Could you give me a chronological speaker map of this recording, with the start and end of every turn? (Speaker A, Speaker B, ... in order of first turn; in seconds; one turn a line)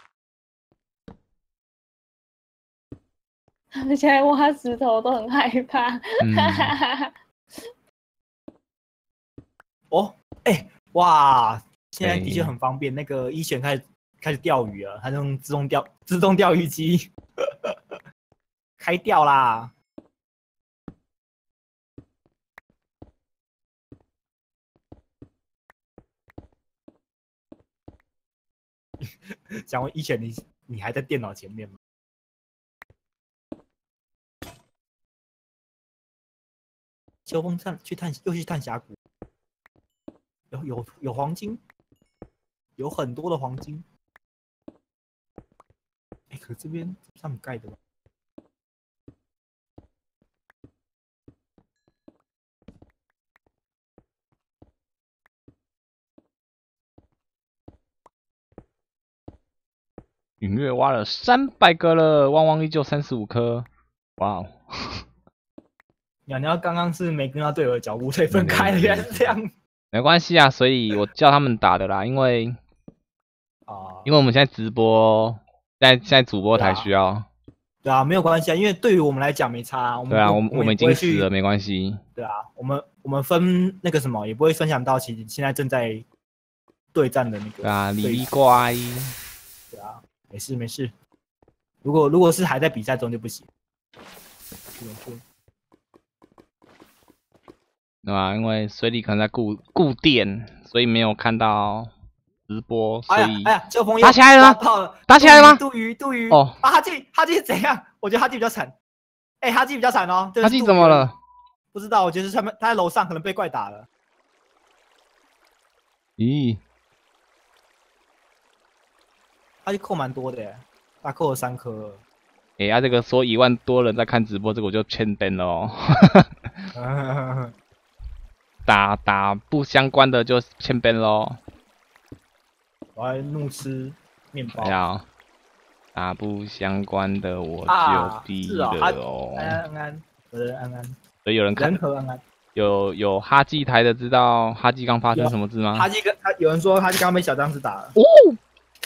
Speaker A: 3.8-7.1
Speaker B: 6.2-6.8
Speaker C: 9.9-18.0
Speaker B: 12.0-12.5
Speaker C: 18.8-19.7
Speaker C: 29.0-31.7
Speaker C: 37.2-39.0
Speaker C: 40.5-41.6
Speaker C: 42.8-43.9
Speaker C: 46.3-47.8
Speaker B: 60.4-63.7
Speaker B: 64.2-65.0
Speaker C: 66.3-69.5
Speaker B: 68.3-69.4
Speaker B: 69.9-72.6
Speaker C: 73.7-74.1
Speaker B: 74.0-77.2
Speaker C: 76.5-76.9
Speaker C: 77.8-81.3
Speaker B: 80.1-82.0
Speaker C: 82.2-86.0
Speaker C: 86.9-88.3
Speaker B: 87.6-89.1
Speaker C: 89.7-90.9
Speaker C: 91.8-93.5
Speaker C: 94.8-95.2
Speaker B: 98.0-101.9
Speaker B: 102.5-105.6
Speaker C: 103.1-108.7
Speaker B: 106.3-106.6
Speaker C: 109.4-111.1
Speaker B: 110.4-111.2
Speaker C: 111.7-113.8
Speaker B: 116.2-116.6
Speaker C: 119.6-122.0
Speaker B: 122.6-126.6
Speaker C: 126.7-127.5
Speaker B: 128.6-131.4
Speaker C: 132.9-134.8
Speaker B: 134.5-135.0
Speaker B: 135.9-139.6
Speaker C: 137.7-141.0
Speaker B: 141.2-141.8
Speaker C: 141.5-142.2
Speaker B: 142.5-145.9
Speaker C: 145.1-147.9
Speaker B: 147.9-148.4